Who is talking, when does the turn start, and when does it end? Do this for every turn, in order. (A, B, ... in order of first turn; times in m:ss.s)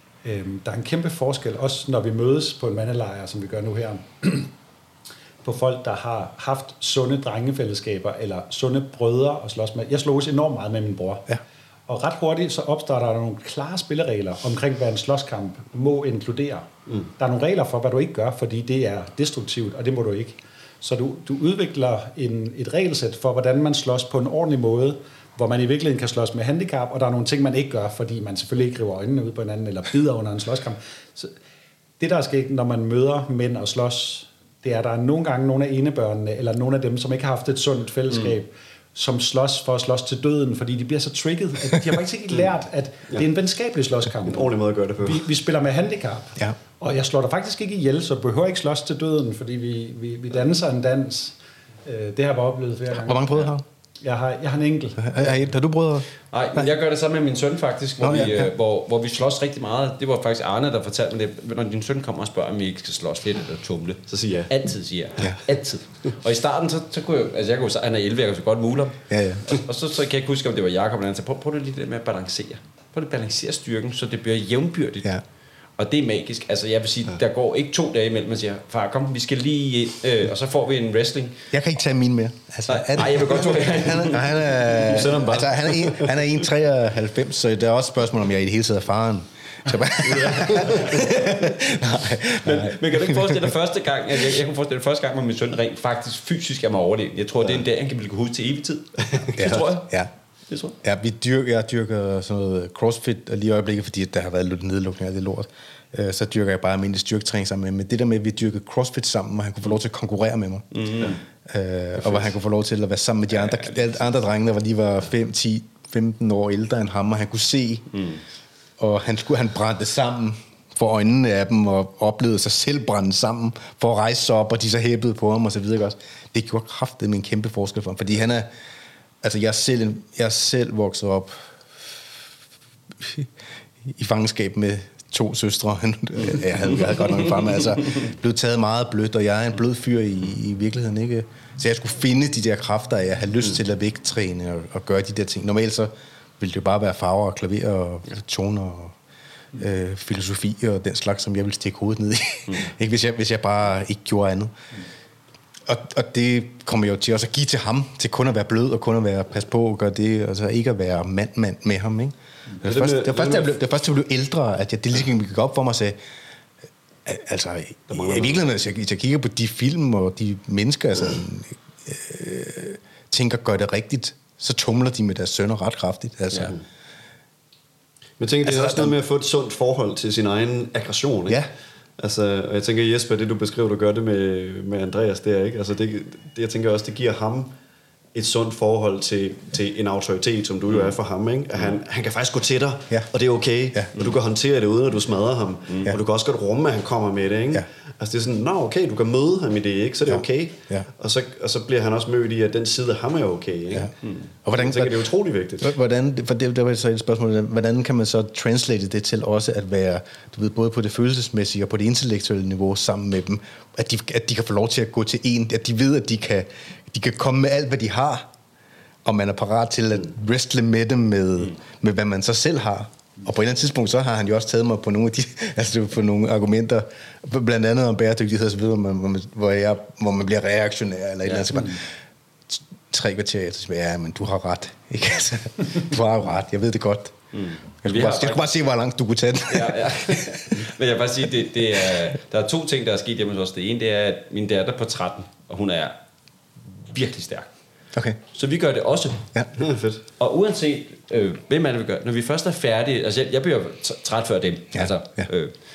0:00.2-0:04.5 A
0:05.4-0:31.3 A
0:32.0-0:55.5 A
0:44.2-0:45.3 B
0:52.9-0:53.6 C
0:55.0-0:56.7 C
0:56.3-1:15.1 D
0:58.0-0:58.5 C
1:04.1-1:04.5 B
1:09.1-1:09.6 C
1:15.8-1:21.4 D
1:21.5-1:33.5 C
1:22.7-1:25.0 D
1:24.7-1:26.3 B
1:30.0-1:31.2 B
1:30.5-1:30.9 D
1:32.4-1:39.9 D
1:39.4-1:40.1 C
1:40.5-1:40.8 D
1:40.8-1:50.9 C
1:50.7-1:51.2 D
1:51.4-1:57.9 C
1:53.3-1:54.1 D
1:57.9-1:58.2 D
1:58.8-2:08.5 C
2:09.2-2:12.1 C
2:13.0-2:13.3 C
2:13.8-2:28.9 C
2:29.5-2:34.5 C
2:35.7-2:46.0 C
2:42.6-2:43.6 B
2:47.0-2:56.6 C
2:47.9-2:48.4 B
2:58.2-3:01.4 B
2:58.4-2:58.9 C
3:02.0-3:07.5 B
3:08.1-3:23.9 B
3:20.1-3:20.9 C
3:24.4-3:38.3 C
3:24.5-3:25.7 B
3:39.0-3:51.9 C
3:51.2-3:51.6 D
3:52.5-3:57.2 C
3:57.3-3:58.4 D
3:57.8-4:00.6 C
3:59.5-4:06.0 D
4:06.8-4:07.5 D
4:07.9-4:08.2 C
4:08.3-4:09.3 D
4:09.6-4:10.0 B
4:10.2-4:15.5 D